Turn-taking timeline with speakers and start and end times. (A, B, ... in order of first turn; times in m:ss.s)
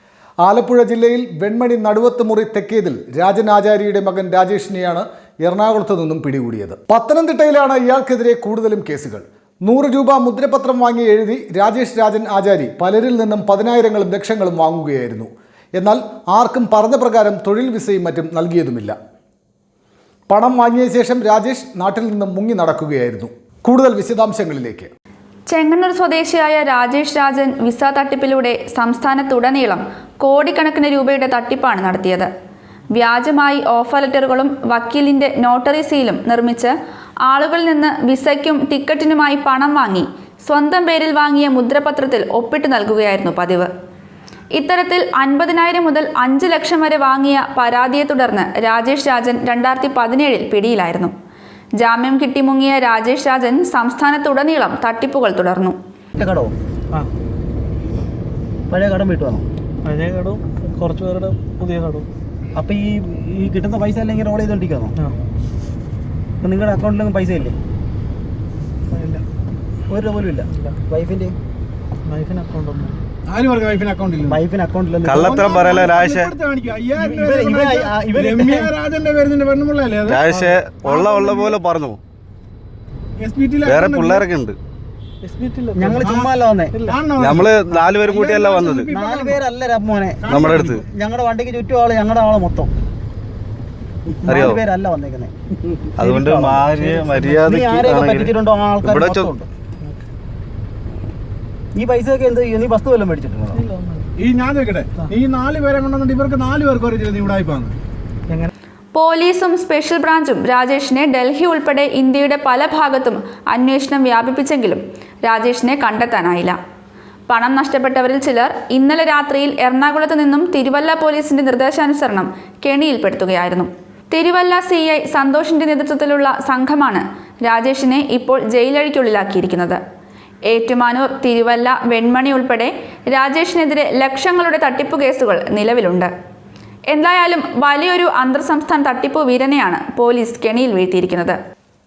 0:00.4-0:19.0 A
0:20.3-0:24.9 A
0:25.5-0:32.3 B
0:32.9-0:36.7 B
0:37.3-0:43.7 B
0:44.6-0:51.1 B
0:51.8-0:55.8 B
0:56.2-0:56.5 C
0:58.7-0:59.5 C
0:59.8-1:02.1 D
1:02.6-1:05.0 C
1:06.4-1:07.6 C
1:08.9-1:09.2 E
1:09.9-1:11.4 C
1:12.0-1:13.0 D
1:13.3-1:14.4 E
1:14.3-1:15.5 C
1:15.0-1:16.3 F
1:15.1-1:21.6 E
1:17.0-1:18.7 C
1:20.1-1:22.0 F
1:23.2-1:24.3 E
1:23.6-1:24.6 F
1:25.2-1:26.0 D
1:25.8-1:26.8 C
1:26.0-1:26.3 E
1:26.8-1:29.4 E
1:27.2-1:28.9 F
1:28.9-1:32.7 C
1:30.2-1:30.8 E
1:30.3-1:30.8 F
1:34.2-1:39.5 C
1:34.3-1:34.6 F
1:36.0-1:39.3 F
1:41.8-1:43.6 C
1:43.7-1:44.1 D
1:44.2-1:47.8 E
1:48.9-1:56.6 B
1:57.3-2:09.8 B
2:10.5-2:16.1 B
2:16.9-2:21.4 B